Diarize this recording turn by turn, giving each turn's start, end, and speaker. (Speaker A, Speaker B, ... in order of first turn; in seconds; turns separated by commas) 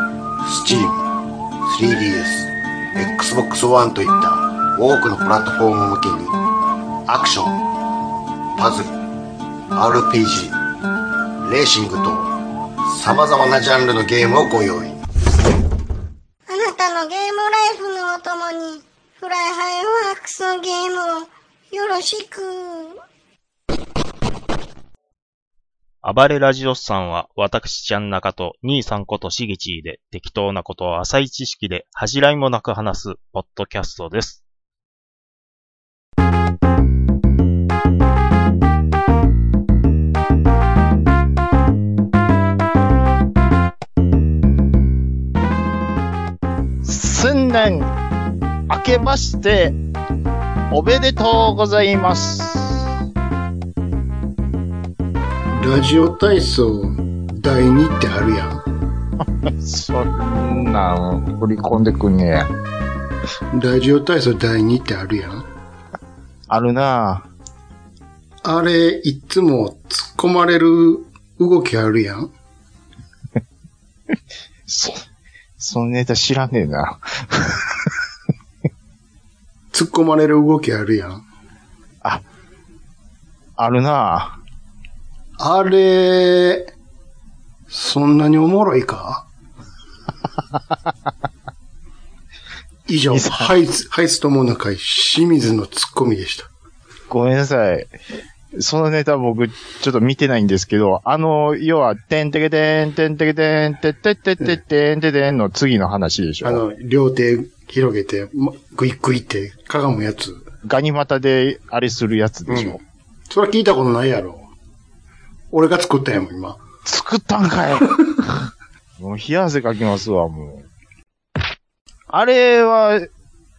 Speaker A: 0.5-0.9, Speaker B: 0.5-0.9, Speaker B: 1.7-2.4, Speaker A: 1.7-2.4, Speaker A: 3.0-6.3, Speaker B: 3.0-6.3, Speaker A: 7.1-7.5, Speaker B: 7.1-7.5, Speaker B: 8.6-8.9, Speaker A: 9.8-10.5, Speaker B: 9.8-10.5, Speaker A: 11.5-12.2, Speaker B: 11.5-12.1, Speaker B: 13.0-14.9, Speaker A: 13.0-14.9, Speaker C: 16.5-23.0, Speaker D: 26.0-34.4, Speaker E: 46.8-47.9, Speaker E: 48.7-49.8, Speaker E: 50.7-52.9, Speaker A: 55.5-58.6, Speaker E: 59.4-62.5, Speaker A: 63.5-65.5, Speaker E: 66.5-67.3, Speaker A: 68.4-72.3, Speaker E: 74.7-75.0, Speaker E: 75.6-77.8, Speaker A: 79.7-81.2, Speaker E: 83.6-84.4, Speaker A: 85.4-86.7, Speaker A: 87.7-89.2, Speaker A: 92.9-96.5, Speaker E: 93.1-93.5, Speaker E: 97.1-97.9, Speaker E: 98.5-106.6, Speaker A: 106.4-110.4, Speaker E: 110.6-112.8, Speaker A: 112.5-112.8, Speaker A: 113.3-114.5, Speaker A: 115.5-116.6, Speaker E: 116.8-120.6, Speaker E: 122.1-123.1